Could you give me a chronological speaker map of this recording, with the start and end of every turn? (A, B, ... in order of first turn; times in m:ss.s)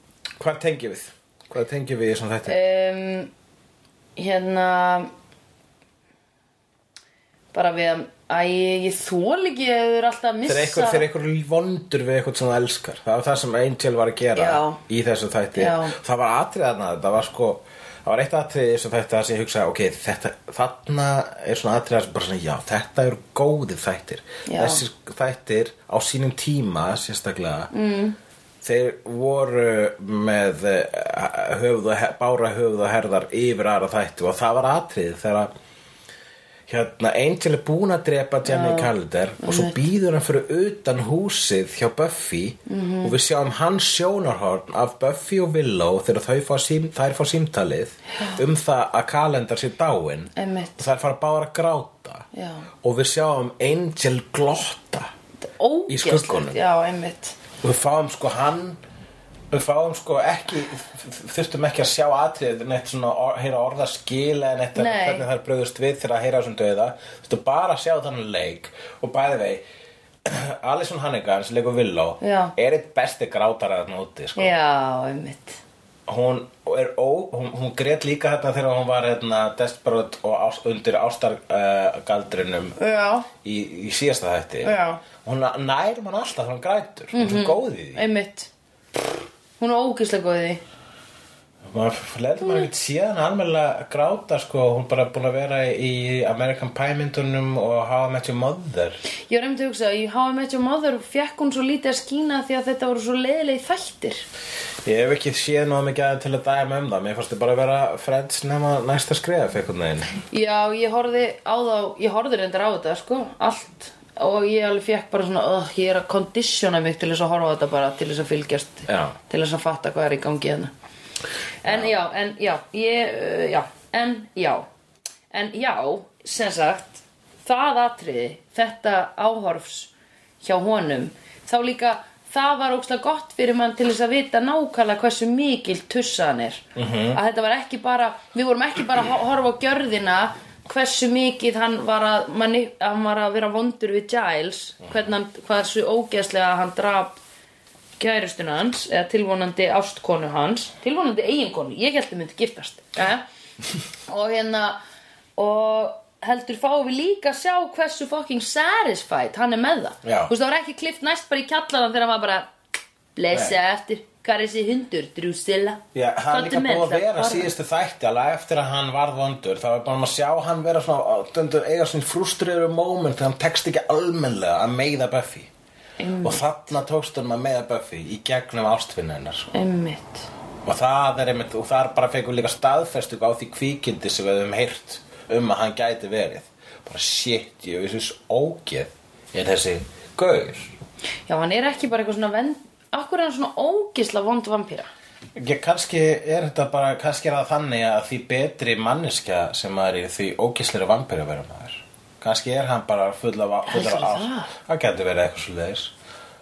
0:00.4-0:02.6 A
0:02.5-0:03.3 B
0:04.2-0:05.1 B
0:07.5-0:11.1 B
0:10.5-0:27.7 A
0:14.4-0:14.8 B
0:15.6-0:16.0 B
0:24.5-0:24.8 B
0:27.7-0:28.2 B
0:28.6-0:35.5 A
0:36.7-0:52.3 A
0:38.5-0:38.9 B
0:39.4-0:39.8 B
0:42.7-0:43.2 B
0:50.4-0:50.8 B
0:52.3-0:52.7 B
0:52.8-0:55.1 A
0:55.4-0:57.4 B
0:55.9-0:56.6 A
0:57.6-0:58.8 A
0:59.5-1:09.6 A
1:04.8-1:05.3 B
1:10.2-1:14.5 A
1:12.2-1:12.5 B
1:14.4-1:15.6 B
1:16.1-1:22.8 A
1:22.8-1:23.3 B
1:23.4-1:28.1 A
1:24.6-1:25.0 B
1:27.1-1:28.5 B
1:29.6-1:30.6 B
1:31.6-1:39.0 A
1:39.3-1:44.2 B
1:44.8-1:50.1 A
1:50.3-2:00.7 B
1:58.9-1:59.2 A
2:01.6-2:04.7 B
2:01.6-2:01.9 A
2:05.3-2:27.2 B
2:16.8-2:17.2 A
2:28.0-2:33.2 B
2:34.1-2:34.8 B
2:35.4-2:42.5 B
2:40.0-2:40.3 A
2:43.2-2:47.5 B
2:45.9-2:55.5 A
2:56.0-2:56.4 B
2:56.2-2:59.5 A
2:59.5-3:00.3 B
3:00.6-3:10.8 A
3:11.3-3:14.9 B
3:15.4-3:25.9 A
3:23.7-3:24.5 B